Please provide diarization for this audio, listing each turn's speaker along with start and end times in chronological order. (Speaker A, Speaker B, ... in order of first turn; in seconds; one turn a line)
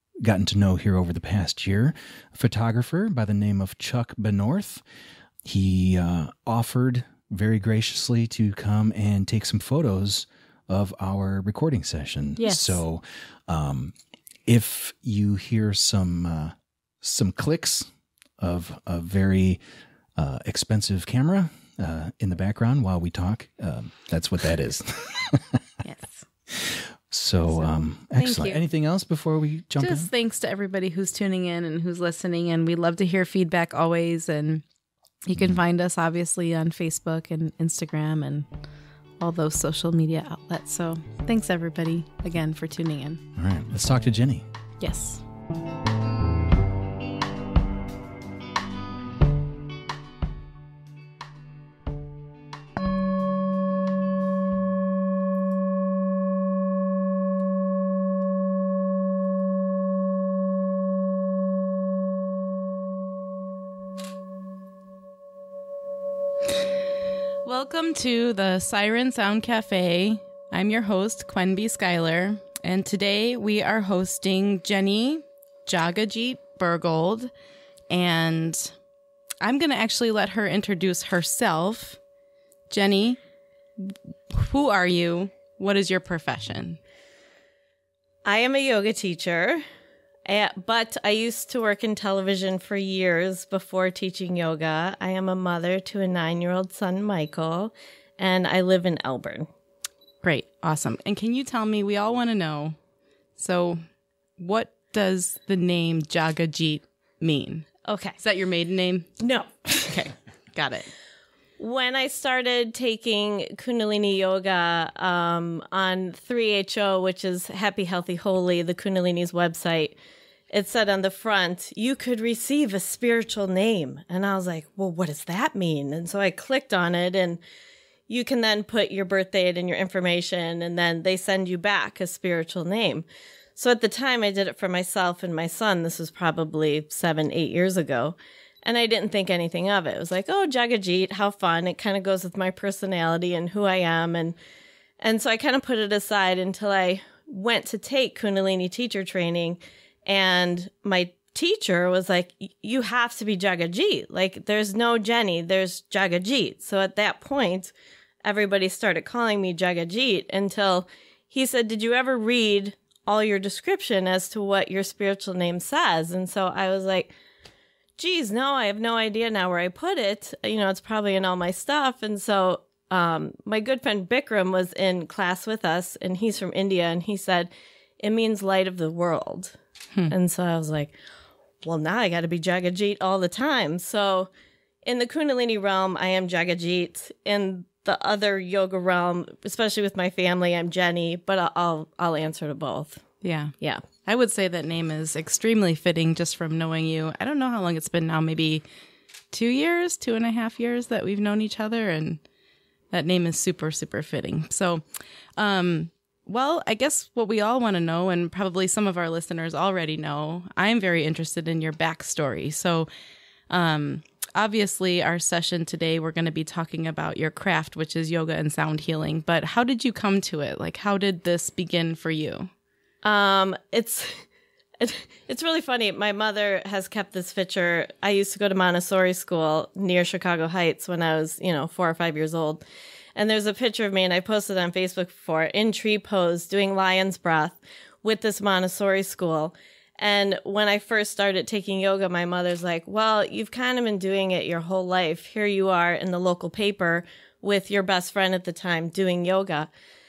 Speaker A: 0.2-4.8
Speaker A: 5.4-13.9
Speaker B: 12.4-12.8
Speaker A: 14.4-19.6
Speaker A: 20.1-25.6
Speaker B: 25.8-26.2
Speaker A: 26.5-30.1
Speaker B: 27.5-28.6
Speaker B: 29.8-34.6
Speaker B: 35.2-38.5
Speaker B: 39.2-43.2
Speaker A: 43.3-44.4
Speaker B: 44.8-45.2
Speaker B: 67.4-77.3
Speaker B: 77.9-78.7
Speaker B: 79.4-82.0
Speaker B: 82.7-83.2
Speaker B: 83.8-86.8
Speaker C: 88.2-89.6
Speaker C: 90.3-99.5
Speaker B: 100.2-102.8
Speaker B: 103.4-103.8
Speaker B: 104.4-107.7
Speaker C: 107.9-108.2
Speaker B: 108.2-109.1
Speaker C: 109.2-110.0
Speaker B: 109.9-110.9
Speaker C: 111.6-119.9
Speaker C: 120.5-127.4
Speaker C: 128.1-133.0
Speaker C: 133.6-144.3
Speaker C: 145.0-157.7
Speaker C: 158.2-167.1
Speaker C: 168.0-179.6
Speaker C: 180.1-180.9
Speaker C: 181.6-184.3
Speaker C: 184.8-193.0
Speaker B: 193.2-193.5
Speaker B: 194.0-198.6
Speaker B: 199.3-202.2
Speaker B: 202.9-204.8
Speaker B: 205.4-212.9
Speaker B: 213.5-222.5
Speaker C: 223.0-224.2
Speaker C: 224.8-232.6
Speaker C: 233.1-249.7